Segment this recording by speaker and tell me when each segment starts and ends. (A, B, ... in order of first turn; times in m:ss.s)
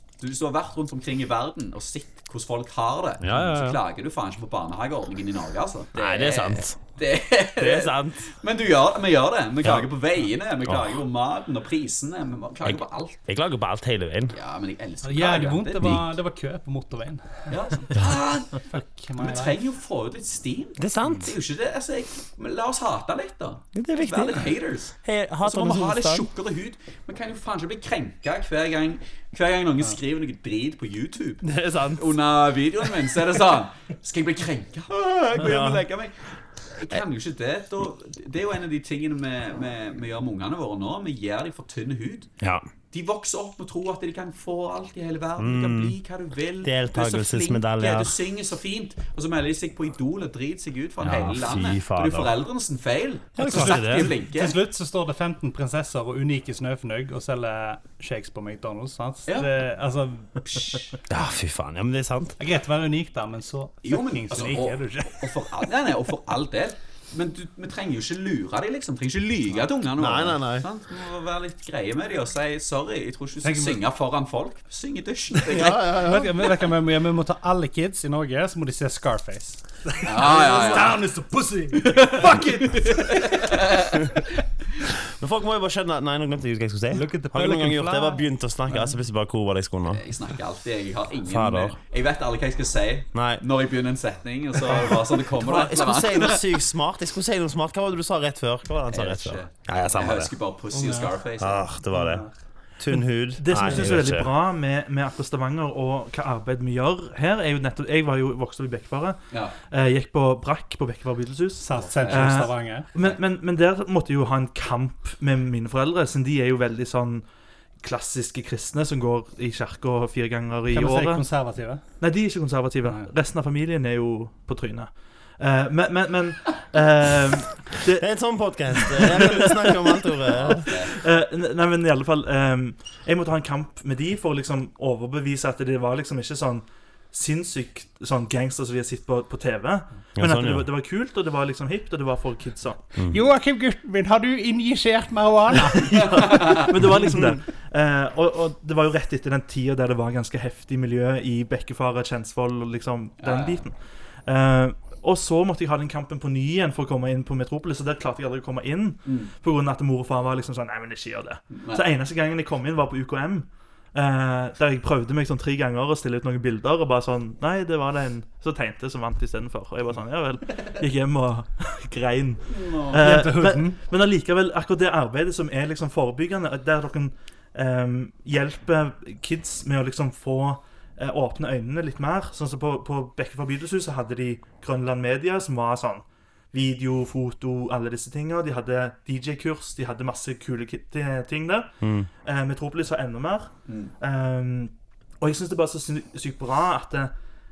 0:00.2-0:13.2 A
0:03.2-0:03.8 B
0:06.0-0:06.8 B
0:07.6-0:08.3 B
0:09.6-0:09.9 B
0:10.7-0:10.9 B
0:12.6-0:14.3 B
0:14.3-0:16.1 A
0:15.0-0:17.8 C
0:17.5-0:18.6 A
0:18.6-0:19.6 C
0:19.2-0:42.3 A
0:20.8-0:21.3 B
0:23.7-0:26.3 B
0:35.3-0:35.8 B
0:42.9-0:54.6 A
0:45.4-0:46.0 B
0:46.6-0:48.2 B
0:51.0-0:52.3 B
0:53.4-0:54.1 B
0:53.5-1:00.3 C
1:00.4-1:01.0 A
1:01.1-1:02.4 B
1:02.4-1:05.6 C
1:03.8-1:15.8 A
1:10.0-1:10.6 B
1:13.4-1:13.8 C
1:15.5-1:23.7 C
1:15.5-1:16.3 B
1:20.0-1:21.0 A
1:21.8-1:24.2 A
1:25.0-1:30.0 B
1:26.9-1:28.9 C
1:29.8-1:36.5 A
1:31.2-1:31.7 B
1:33.1-1:33.4 B
1:34.8-1:40.3 B
1:38.9-1:41.7 A
1:40.7-1:41.1 C
1:41.4-1:44.3 B
1:41.9-1:42.3 C
1:43.3-1:57.2 D
1:43.6-1:43.9 C
1:49.3-1:49.6 A
1:51.6-1:52.9 C
1:51.8-1:53.2 A
1:57.8-2:01.2 D
2:00.7-2:01.8 C
2:02.0-2:08.0 D
2:08.0-2:10.7 B
2:08.7-2:22.8 D
2:10.3-2:11.0 A
2:20.2-2:20.7 B
2:23.1-2:26.2 C
2:25.8-3:11.7 D
2:26.0-2:26.7 A
2:33.2-2:33.6 A
2:39.0-2:39.3 A
2:41.5-2:41.8 A
2:52.5-2:53.1 A
2:52.9-2:53.8 C
3:11.8-3:12.1 B
3:12.2-3:17.1 D